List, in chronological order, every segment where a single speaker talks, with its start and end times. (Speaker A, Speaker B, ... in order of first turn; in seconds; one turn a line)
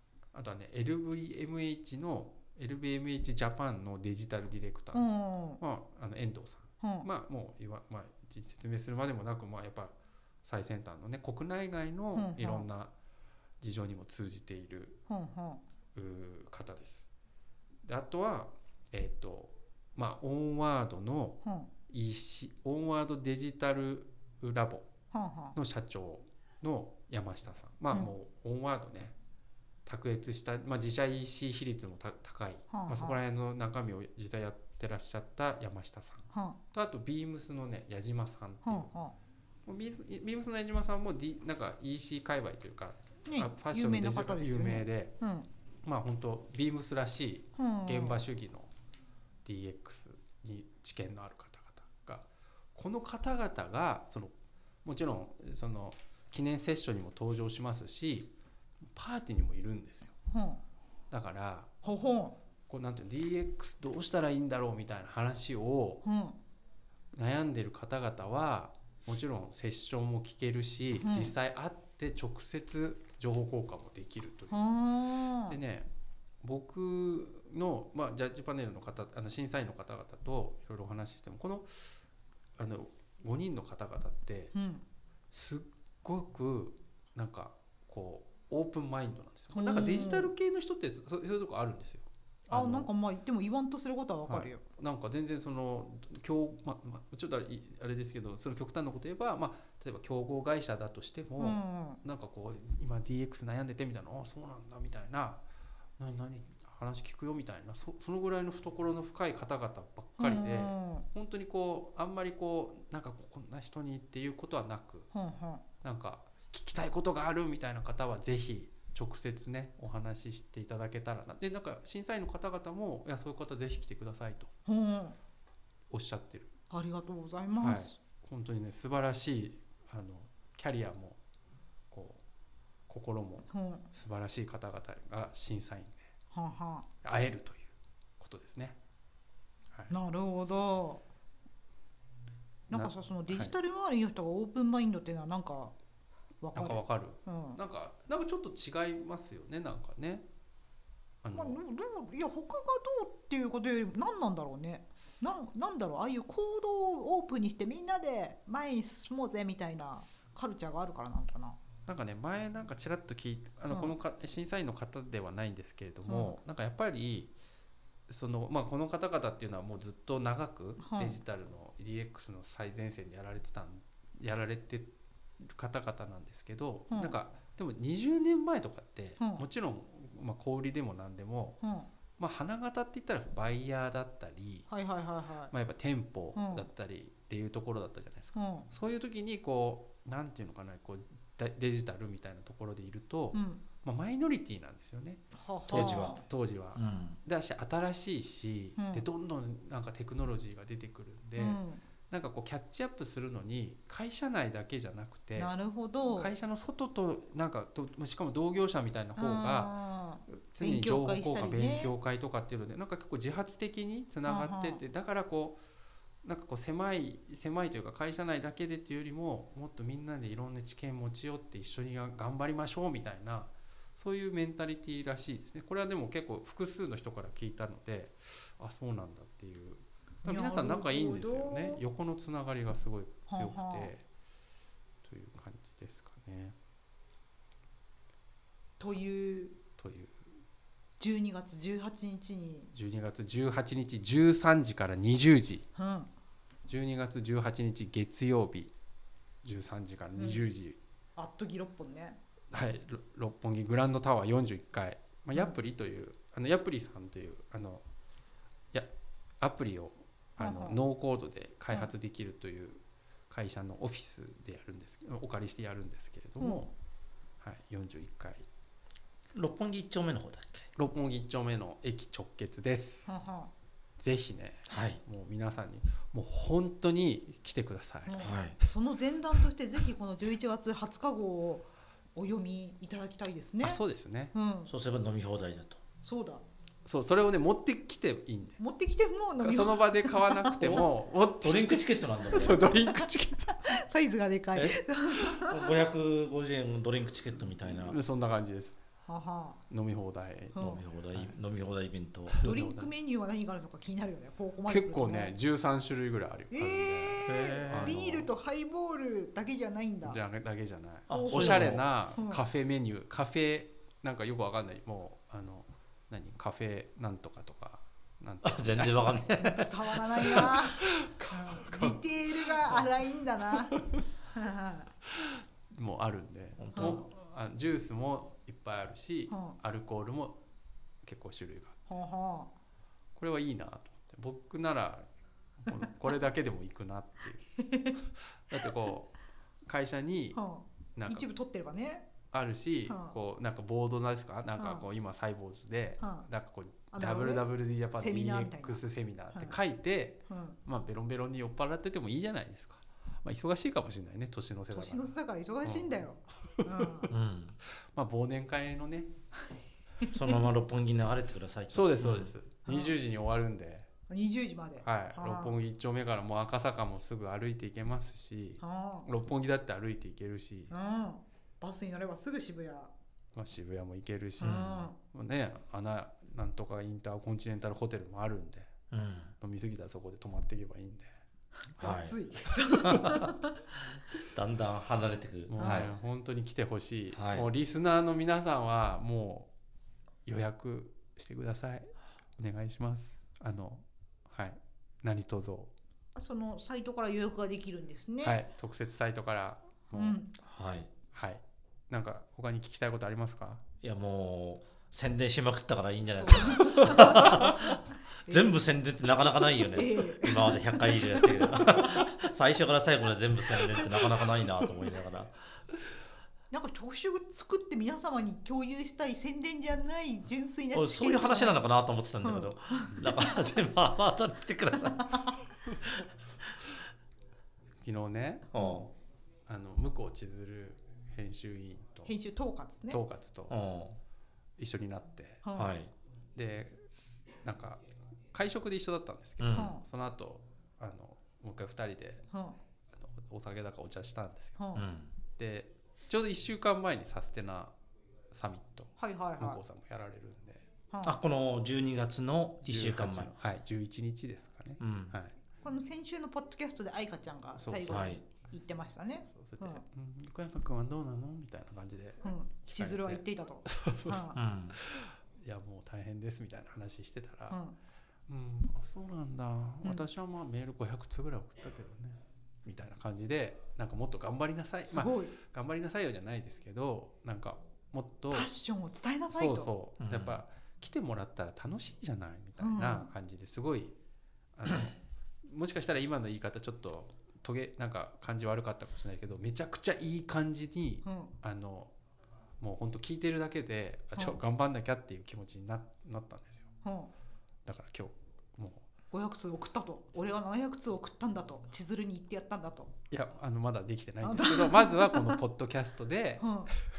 Speaker A: 0.3-5.1
Speaker B: 4.9-5.6
Speaker A: 5.6-12.9
Speaker B: 6.8-7.1
Speaker B: 12.1-12.7
Speaker A: 13.6-15.0
Speaker B: 15.1-15.6
Speaker A: 15.9-17.1
Speaker A: 17.8-24.9
Speaker B: 21.4-21.7
Speaker B: 25.1-25.6
Speaker A: 25.5-29.1
Speaker A: 29.9-38.9
Speaker B: 32.7-33.2
Speaker B: 36.3-36.6
Speaker B: 38.6-39.1
Speaker A: 39.6-45.1
Speaker B: 43.2-45.5
Speaker A: 45.8-48.7
Speaker B: 47.6-48.2
Speaker A: 49.4-54.3
Speaker A: 54.8-58.3
Speaker A: 58.9-60.1
Speaker B: 60.3-60.6
Speaker A: 61.1-61.7
Speaker B: 61.8-62.3
Speaker A: 62.7-66.0
Speaker B: 66.0-66.4
Speaker A: 67.1-74.5
Speaker B: 71.0-71.3
Speaker B: 74.5-75.6
Speaker A: 75.5-75.9
Speaker A: 76.4-81.9
Speaker A: 82.6-84.5
Speaker B: 84.5-84.8
Speaker A: 85.3-92.9
Speaker B: 89.5-90.3
Speaker B: 92.5-94.6
Speaker A: 94.3-105.4
Speaker B: 101.4-102.0
Speaker A: 106.0-115.1
Speaker B: 110.2-111.0
Speaker B: 115.1-115.6
Speaker A: 115.8-124.5
Speaker B: 124.7-125.2
Speaker A: 125.9-126.5
Speaker B: 126.7-127.9
Speaker A: 127.6-131.2
Speaker A: 131.9-132.2
Speaker A: 132.9-136.1
Speaker B: 133.5-133.8
Speaker B: 136.3-136.9
Speaker A: 137.0-138.8
Speaker B: 139.9-141.0
Speaker B: 142.7-145.7
Speaker A: 142.7-143.5
Speaker B: 146.4-147.6
Speaker A: 146.5-150.2
Speaker A: 151.2-151.6
Speaker B: 151.3-161.6
Speaker A: 161.9-167.3
Speaker B: 166.1-166.4
Speaker A: 168.1-181.6
Speaker B: 170.8-171.2
Speaker B: 176.9-177.2
Speaker B: 179.2-179.4
Speaker B: 181.6-181.9
Speaker A: 182.2-184.7
Speaker B: 184.7-185.5
Speaker A: 185.5-205.5
Speaker B: 186.3-186.7
Speaker B: 188.3-188.7
Speaker B: 193.3-193.6
Speaker B: 195.3-196.2
Speaker C: 195.7-196.2
Speaker C: 196.7-197.2
Speaker B: 198.8-199.1
Speaker B: 201.4-201.8
Speaker B: 205.3-206.3
Speaker A: 206.1-209.7
Speaker B: 209.2-211.9
Speaker A: 210.3-215.6
Speaker B: 214.2-214.8
Speaker A: 216.2-234.0
Speaker B: 230.2-231.8
Speaker B: 233.3-233.9
Speaker A: 235.0-236.6
Speaker B: 238.8-239.6
Speaker A: 239.8-240.3
Speaker B: 241.0-242.7
Speaker A: 242.7-245.7
Speaker B: 245.8-246.1
Speaker A: 246.7-248.7
Speaker A: 249.4-250.8
Speaker B: 250.2-250.4
Speaker B: 251.2-252.2
Speaker A: 252.5-257.8
Speaker A: 259.4-266.7
Speaker B: 260.4-260.8
Speaker B: 266.4-266.7
Speaker A: 267.4-268.4
Speaker C: 269.3-270.7
Speaker A: 270.8-273.1
Speaker B: 273.1-273.5
Speaker A: 274.0-278.3
Speaker C: 274.7-275.0
Speaker B: 278.1-283.8
Speaker C: 278.2-278.6
Speaker A: 283.6-284.3
Speaker B: 284.3-284.7
Speaker C: 284.7-285.8
Speaker B: 286.0-286.4
Speaker A: 286.8-288.6
Speaker B: 288.6-290.8
Speaker A: 289.4-293.7
Speaker C: 290.6-290.9
Speaker C: 291.4-292.7
Speaker B: 292.3-295.6
Speaker C: 294.5-298.0
Speaker A: 297.8-298.8
Speaker B: 299.1-299.6
Speaker A: 299.7-300.6
Speaker B: 300.5-300.8
Speaker C: 300.5-302.6
Speaker A: 302.3-302.9
Speaker B: 302.4-305.3
Speaker A: 304.6-308.3
Speaker B: 306.5-310.2
Speaker C: 307.3-308.2
Speaker A: 310.0-319.2
Speaker C: 311.1-311.9
Speaker B: 311.1-312.4
Speaker C: 318.4-320.5
Speaker B: 319.3-323.7
Speaker A: 320.3-322.9
Speaker A: 323.7-324.0
Speaker B: 324.3-324.9
Speaker A: 325.1-330.4
Speaker C: 326.6-327.0
Speaker B: 326.7-327.0
Speaker B: 329.3-329.6
Speaker A: 331.0-331.9
Speaker B: 331.9-332.5
Speaker A: 333.1-335.1
Speaker A: 335.6-339.1
Speaker B: 337.6-338.0
Speaker A: 339.6-340.4
Speaker B: 340.3-342.1
Speaker A: 340.9-341.2
Speaker A: 342.3-355.1
Speaker B: 342.9-343.1
Speaker B: 344.6-344.8
Speaker B: 346.0-346.2
Speaker B: 346.9-349.6
Speaker B: 350.3-350.6
Speaker B: 354.7-357.1
Speaker A: 355.6-357.0
Speaker C: 357.1-357.6
Speaker A: 357.9-359.6
Speaker B: 360.0-360.3
Speaker C: 360.1-362.3
Speaker A: 361.7-363.9
Speaker B: 362.6-362.9
Speaker B: 364.1-365.6
Speaker A: 364.8-370.7
Speaker B: 368.6-369.1
Speaker B: 370.7-372.9
Speaker A: 373.3-378.7
Speaker B: 374.4-374.9
Speaker C: 374.4-374.8
Speaker C: 378.9-379.3
Speaker A: 379.4-381.1
Speaker B: 381.6-383.5
Speaker C: 381.8-382.2
Speaker C: 382.8-383.3
Speaker C: 384.2-385.9
Speaker A: 385.5-389.5
Speaker B: 385.6-385.9
Speaker C: 387.1-387.5
Speaker A: 390.2-395.7
Speaker B: 396.1-398.4
Speaker A: 398.2-400.2
Speaker B: 399.9-400.3
Speaker C: 400.4-400.9
Speaker A: 401.1-403.6
Speaker C: 403.8-415.3
Speaker B: 406.2-408.6
Speaker B: 409.7-411.8
Speaker B: 416.5-421.6
Speaker C: 420.7-425.3
Speaker B: 422.2-423.2
Speaker A: 427.8-428.5
Speaker C: 428.5-428.9
Speaker A: 429.5-432.1
Speaker B: 432.1-433.0
Speaker A: 432.9-433.6
Speaker C: 433.5-434.0
Speaker A: 434.6-435.4
Speaker B: 435.4-435.7
Speaker C: 435.5-435.9
Speaker A: 436.4-436.8
Speaker A: 437.4-442.3
Speaker C: 439.4-439.7
Speaker B: 439.5-439.8
Speaker B: 442.3-442.6
Speaker A: 442.9-444.6
Speaker B: 444.6-444.9
Speaker C: 444.7-445.1
Speaker A: 445.4-447.7
Speaker A: 448.3-450.6
Speaker B: 449.0-449.6
Speaker B: 450.9-451.2
Speaker C: 451.0-453.3
Speaker A: 452.6-455.3
Speaker C: 454.8-455.1
Speaker B: 455.6-459.8
Speaker A: 457.6-458.2
Speaker C: 457.9-458.2
Speaker A: 459.3-467.6
Speaker B: 462.2-464.4
Speaker C: 464.3-464.8
Speaker B: 467.5-467.8
Speaker A: 468.3-478.5
Speaker B: 474.8-475.3
Speaker B: 478.3-479.7
Speaker A: 479.3-483.9
Speaker C: 480.0-480.4
Speaker B: 482.6-483.1
Speaker A: 484.5-491.9
Speaker B: 491.0-491.3
Speaker A: 492.6-496.7
Speaker B: 496.8-497.1
Speaker A: 497.6-498.9
Speaker B: 499.1-502.9
Speaker A: 503.1-506.5
Speaker B: 504.2-505.4
Speaker B: 506.4-506.7